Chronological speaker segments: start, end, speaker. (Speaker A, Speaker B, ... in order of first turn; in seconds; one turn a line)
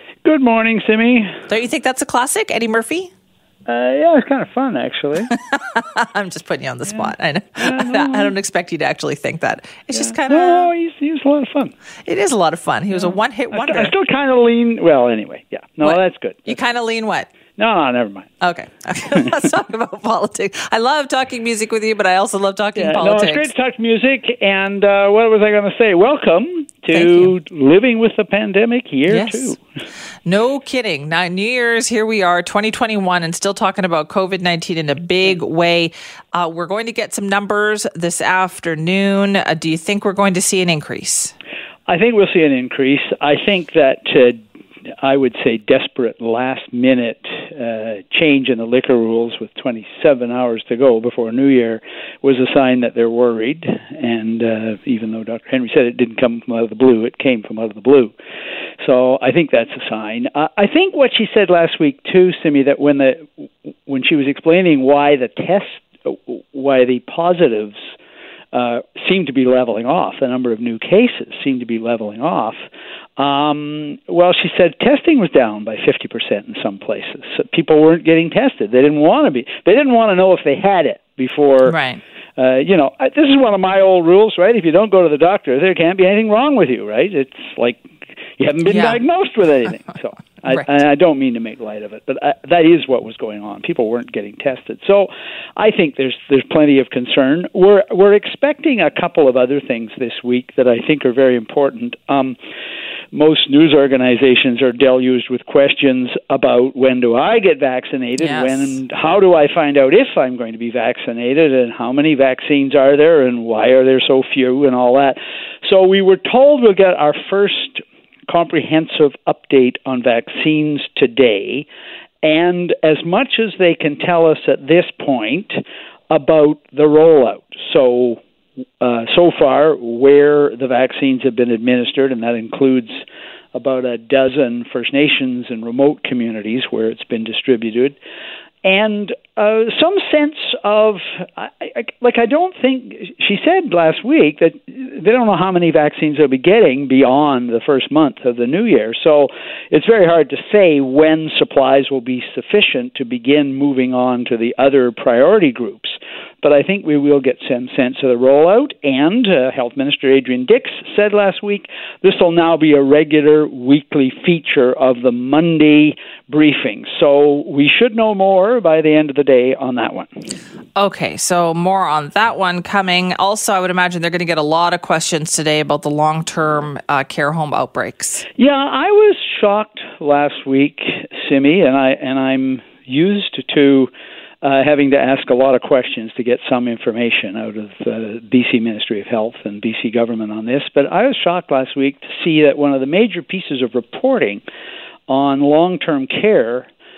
Speaker A: 0.2-1.3
Speaker B: 1.5-3.1
Speaker A: 3.7-5.3
Speaker B: 5.3-10.7
Speaker A: 6.8-8.3
Speaker A: 9.9-11.7
Speaker B: 12.1-13.9
Speaker A: 12.9-16.6
Speaker B: 15.8-17.3
Speaker A: 17.6-18.3
Speaker B: 18.4-23.5
Speaker A: 22.8-29.6
Speaker B: 26.9-27.3
Speaker B: 29.1-29.6
Speaker B: 30.2-41.3
Speaker A: 41.9-44.4
Speaker A: 45.0-58.1
Speaker A: 58.8-63.3
Speaker A: 63.8-67.8
Speaker A: 68.5-72.6
Speaker A: 73.2-81.8
Speaker B: 81.7-82.0
Speaker A: 82.4-102.4
Speaker B: 88.6-89.0
Speaker A: 103.1-121.7
Speaker B: 108.2-108.8
Speaker A: 122.2-128.2
Speaker A: 128.8-133.0
Speaker A: 133.5-138.0
Speaker A: 138.6-170.1
Speaker B: 170.8-178.3
Speaker A: 178.4-194.4
Speaker A: 195.1-196.7